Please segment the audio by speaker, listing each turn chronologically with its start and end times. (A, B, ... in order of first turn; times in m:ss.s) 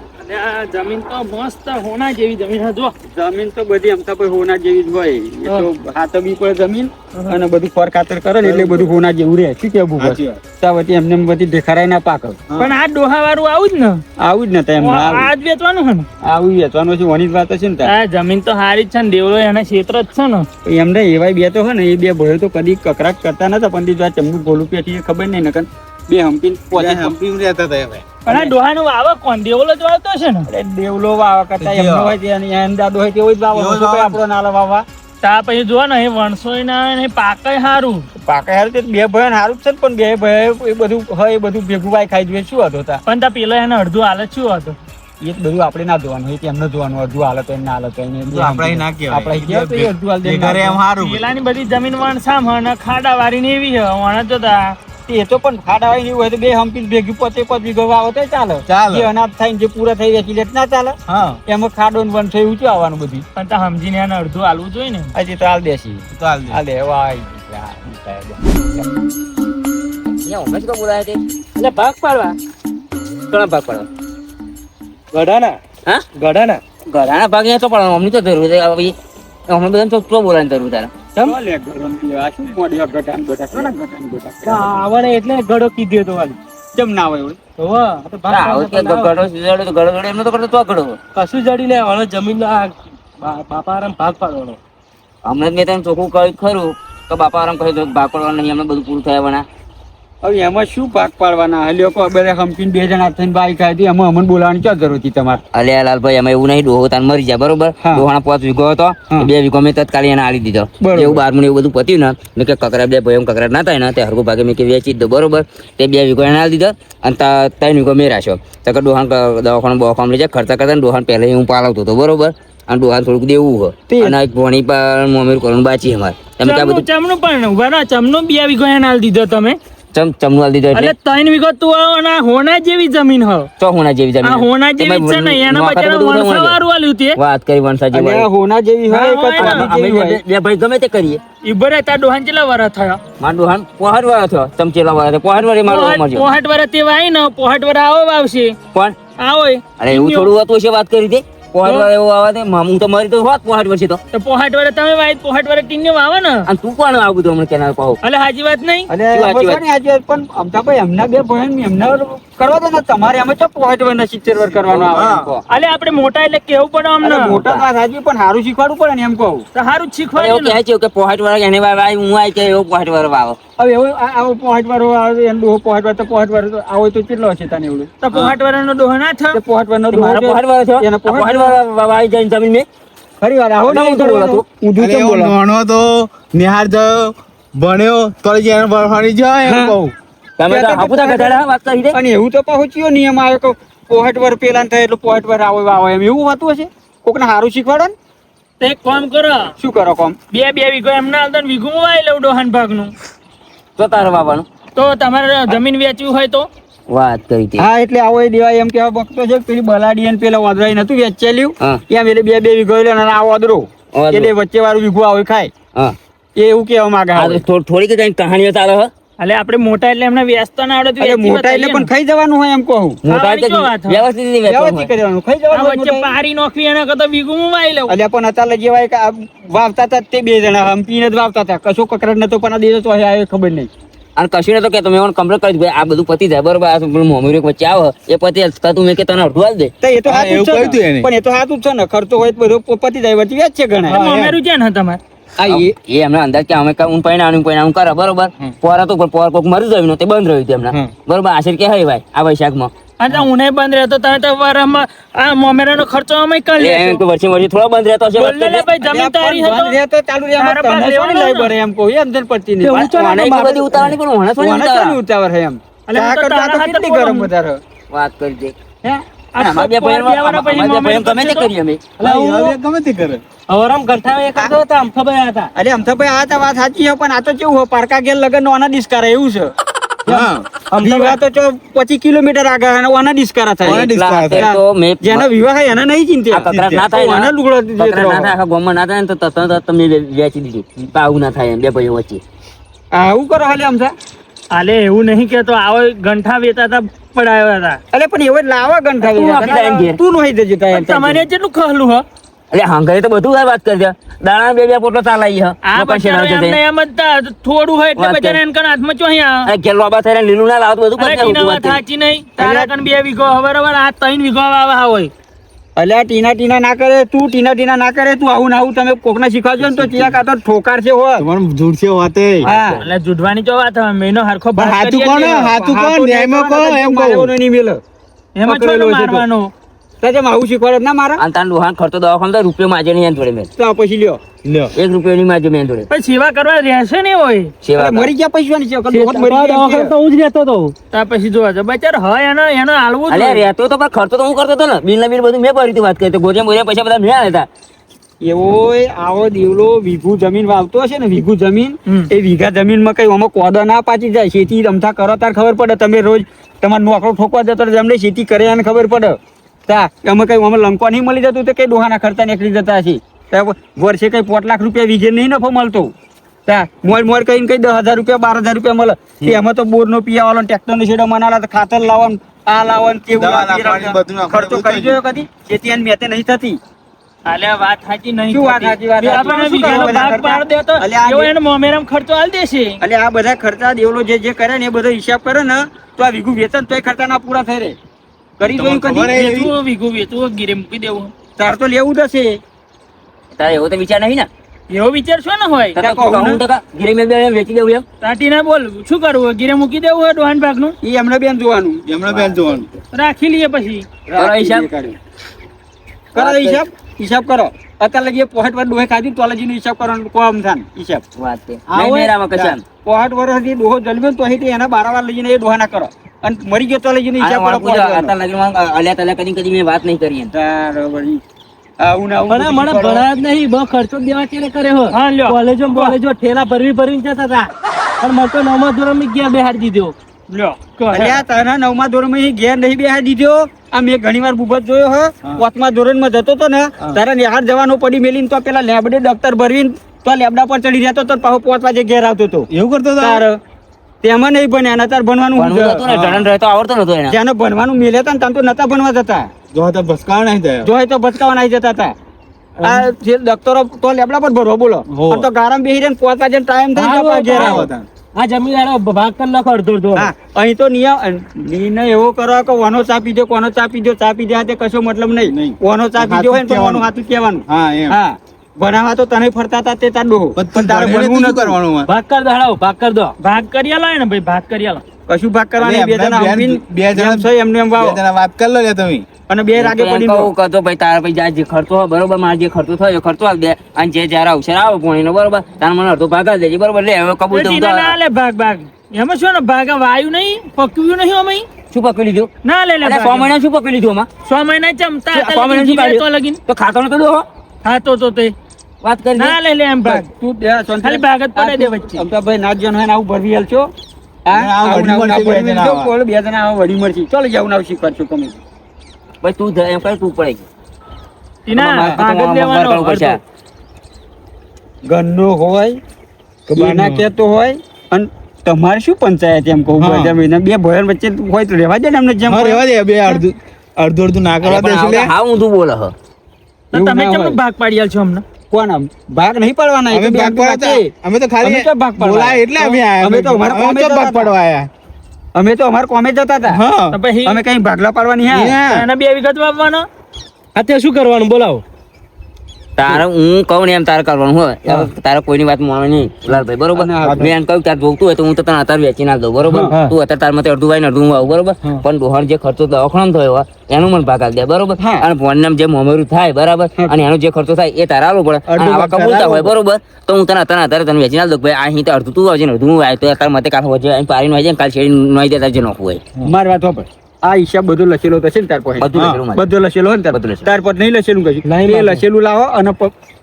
0:00.2-0:02.9 A
0:03.1-0:12.5 B
0:08.4-0:09.0 C
0:10.0-0:10.4 C
0:12.6-0:14.0 A
0:14.2-0:15.3 B
0:14.8-0:16.1 A
0:16.2-0:17.9 B
0:17.8-0:20.4 A
0:20.6-0:27.1 B
0:26.8-0:28.4 C
0:28.2-0:30.5 A
0:30.5-0:34.8 B
0:31.6-0:32.2 C
0:33.5-0:34.2 C
0:35.2-0:38.1 A
0:38.2-0:43.0 B
0:43.0-0:44.8 A
0:45.2-0:50.8 B
0:48.3-0:51.3 C
0:51.0-0:54.8 A
0:55.1-1:01.0 B
0:58.7-0:59.1 C
1:01.1-1:01.4 C
1:01.5-1:03.2 B
1:03.4-1:05.1 A
1:05.2-1:09.0 B
1:06.2-1:06.6 C
1:10.2-1:11.2 D
1:11.6-1:12.4 E
1:13.3-1:13.9 D
1:15.1-1:15.6 E
1:16.2-1:16.6 E
1:16.9-1:18.9 D
1:19.5-1:20.9 D
1:21.1-1:24.8 B
1:24.4-1:26.4 E
1:26.7-1:27.4 B
1:27.6-1:29.1 E
1:28.3-1:31.0 D
1:31.1-1:34.6 E
1:35.2-1:39.4 D
1:40.2-1:45.4 B
1:45.5-2:06.8 D
1:50.8-1:51.2 B
2:03.9-2:04.2 B
2:06.4-2:09.6 A
2:09.9-2:10.9 D
2:10.7-2:13.5 A
2:13.6-2:16.6 D
2:14.2-2:17.2 A
2:17.2-2:18.3 D
2:17.9-2:20.2 B
2:18.9-2:19.6 A
2:19.3-2:21.2 D
2:21.4-2:23.0 A
2:23.2-2:26.3 D
2:25.7-2:28.6 A
2:29.2-2:30.3 A
2:29.8-2:34.0 D
2:34.1-2:36.4 A
2:36.5-2:38.0 D
2:38.0-2:38.9 A
2:38.9-2:45.4 B
2:39.1-2:39.6 D
2:44.8-2:45.3 C
2:45.5-2:47.4 A
2:47.0-2:49.4 B
2:49.5-2:50.6 A
2:50.2-2:53.4 D
2:53.6-2:57.9 B
2:58.0-2:59.4 A
2:59.3-3:01.6 B
2:59.9-3:02.6 D
3:03.2-3:05.3 B
3:03.6-3:04.4 D
3:04.8-3:09.9 C
3:09.4-3:09.9 B
3:10.4-3:12.0 D
3:10.5-3:11.4 B
3:11.9-3:17.9 B
3:18.6-3:19.5 A
3:19.6-3:20.2 B
3:20.3-3:22.9 A
3:23.8-3:24.4 D
3:24.8-3:26.5 A
3:26.9-3:27.7 D
3:27.6-3:35.5 B
3:33.9-3:34.3 D
3:36.4-3:37.4 B
3:37.1-3:38.9 D
3:39.2-3:41.9 A
3:41.0-3:43.0 B
3:43.0-3:44.9 D
3:43.1-3:44.0 A
3:44.4-3:46.1 B
3:45.5-3:47.9 A
3:47.9-3:53.7 B
3:54.2-3:59.7 D
3:59.8-4:04.0 B
4:00.0-4:01.1 C
4:03.9-4:04.4 C
4:03.9-4:05.0 A
4:05.4-4:05.7 B
4:05.5-4:12.7 D
4:13.0-4:17.0 A
4:16.6-4:18.7 D
4:18.2-4:19.8 A
4:18.8-4:27.6 B
4:20.4-4:21.5 A
4:22.6-4:23.2 E
4:22.7-4:25.0 D
4:25.9-4:27.3 A
4:27.9-4:28.5 D
4:29.3-4:31.5 A
4:29.4-4:31.8 D
4:32.0-4:32.6 E
4:32.0-4:33.2 C
4:33.5-4:35.5 E
4:35.5-4:39.5 B
4:40.0-4:41.2 E
4:40.1-4:40.5 C
4:40.8-4:48.3 B
4:43.6-4:44.5 C
4:43.6-4:45.3 D
4:46.3-4:52.2 D
4:46.5-4:46.8 C
4:52.9-4:53.9 B
4:54.5-4:57.8 A
4:57.9-5:01.2 B
4:59.0-5:00.0 D
5:00.7-5:02.0 A
5:02.5-5:06.6 D
5:05.6-5:09.5 A
5:08.0-5:08.4 D
5:09.4-5:11.8 D
5:11.0-5:15.1 A
5:12.4-5:12.7 B
5:15.8-5:21.2 B
5:19.6-5:20.1 C
5:21.2-5:22.5 C
5:22.4-5:22.8 B
5:22.8-5:25.5 A
5:24.6-5:27.3 C
5:25.6-5:27.8 B
5:28.3-5:29.5 A
5:28.4-5:29.2 B
5:30.0-5:31.2 B
5:31.2-5:33.5 D
5:33.6-5:34.2 B
5:34.4-5:34.7 C
5:34.7-5:35.9 D
5:35.9-5:37.5 A
5:37.6-5:38.1 D
5:37.8-5:39.9 B
5:38.9-5:40.7 E
5:40.9-5:43.4 A
5:43.1-5:47.5 D
5:48.2-6:05.9 B
6:06.4-6:16.6 B
6:13.1-6:15.0 C
6:17.2-6:22.8 A
6:18.3-6:21.3 B
6:22.8-6:27.8 B
6:28.4-6:29.2 B
6:28.4-6:29.5 C
6:29.1-6:31.1 A
6:31.4-6:32.4 B
6:33.3-6:34.3 D
6:34.7-6:35.8 A
6:35.8-6:37.8 D
6:35.8-6:36.4 B
6:38.0-6:40.7 A
6:40.8-6:41.8 B
6:41.8-6:42.7 C
6:42.9-6:43.9 A
6:44.1-6:45.0 B
6:44.2-6:44.6 D
6:46.1-6:46.6 D
6:46.1-6:51.0 B
6:51.2-6:52.6 D
6:51.7-6:58.1 B
6:57.2-7:00.3 D
7:00.3-7:01.2 B
7:01.8-7:03.1 B
7:02.3-7:09.9 E
7:04.9-7:06.0 A
7:10.3-7:11.2 A
7:10.9-7:23.4 B
7:22.5-7:23.2 C
7:24.0-7:25.8 B
7:25.4-7:27.2 D
7:25.8-7:26.3 C
7:27.1-7:29.3 B
7:29.5-7:30.7 C
7:30.6-7:31.9 B
7:32.6-7:32.9 E
7:32.6-7:37.7 B
7:34.9-7:35.3 C
7:36.7-7:37.6 E
7:37.3-7:37.9 C
7:38.2-7:40.1 E
7:39.9-7:51.6 B
7:45.2-7:46.8 C
7:47.5-7:48.0 C
7:50.4-7:51.9 C
7:51.9-7:53.1 E
7:53.2-7:54.8 A
7:55.1-7:58.0 B
7:55.6-7:59.0 C
7:59.3-8:00.3 B
7:59.5-8:07.9 D
8:07.3-8:11.5 A
8:11.7-8:12.3 D
8:12.4-8:13.3 A
8:12.8-8:14.1 D
8:14.2-8:16.4 A
8:15.1-8:17.2 D
8:17.6-8:18.3 A
8:18.8-8:19.4 D
8:19.2-8:20.0 A
8:19.8-8:23.7 B
8:20.8-8:22.0 A
8:24.2-8:28.4 B
8:24.3-8:25.9 C
8:29.2-8:30.4 D
8:31.4-8:33.2 A
8:31.5-8:33.2 D
8:31.6-8:32.0 B
8:34.9-8:35.8 B
8:36.5-8:37.0 C
8:36.6-8:43.2 B
8:39.8-8:40.1 C
8:42.2-8:45.1 C
8:44.4-8:45.9 D
8:46.7-8:48.2 A
8:46.7-8:47.4 B
8:48.5-8:50.9 B
8:49.9-8:54.7 C
8:51.4-8:54.3 B
8:55.3-8:56.6 B
8:56.5-8:57.0 C
8:56.9-8:57.4 A
8:57.2-8:58.6 B
8:58.3-8:58.8 C
8:58.7-8:59.8 A
9:00.6-9:01.6 E
9:02.8-9:26.0 D
9:06.3-9:07.3 B
9:07.0-9:07.3 C
9:09.5-9:09.7 B
9:09.7-9:09.9 E
9:14.8-9:15.0 B
9:18.5-9:19.5 C
9:26.2-9:32.9 B
9:28.8-9:29.4 D
9:28.9-9:29.2 C
9:30.1-9:30.5 D
9:31.4-9:32.0 E